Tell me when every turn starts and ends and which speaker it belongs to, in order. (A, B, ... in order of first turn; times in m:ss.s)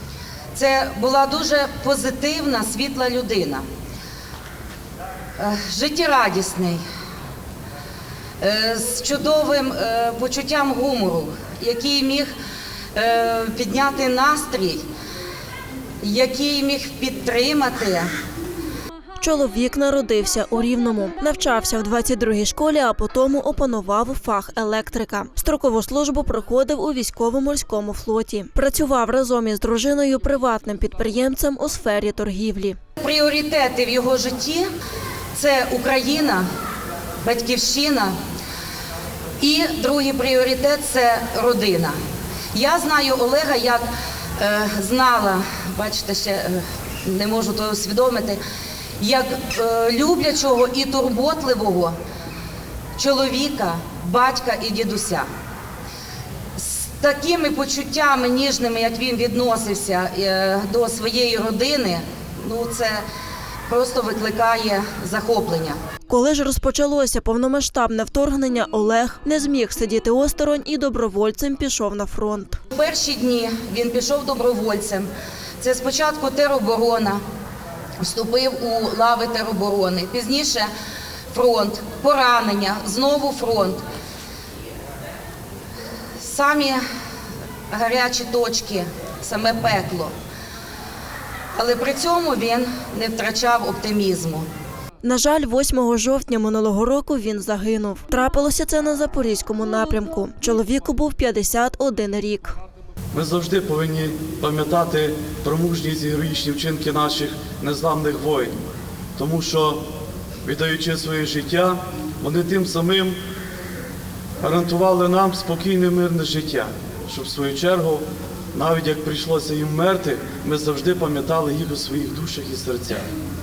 0:00.5-0:03.6 A
0:05.4-0:06.8 A
0:08.4-0:12.3 A
0:12.9-0:14.8 A
0:16.0-0:18.1 A
0:19.2-0:32.8 B
0:33.0-0:34.6 A
0:35.3-0:36.4 A
0:37.2-0:38.1 A
0:39.4-0:42.0 A
0:42.5-0:48.4 A
0:49.0-0:51.9 A
0:53.0-0:55.2 A
0:56.6-1:03.0 A
1:03.7-1:05.8 A
1:06.1-1:12.6 B
1:12.7-1:15.1 A
1:15.6-1:17.2 A
1:18.0-1:20.7 A
1:21.3-1:23.8 A
1:26.2-1:26.8 A
1:27.7-1:30.1 A
1:31.5-1:34.4 A
1:35.0-1:42.6 B
1:43.1-1:48.5 C
1:49.2-1:49.8 C
1:50.4-1:53.2 C
1:54.4-2:03.1 C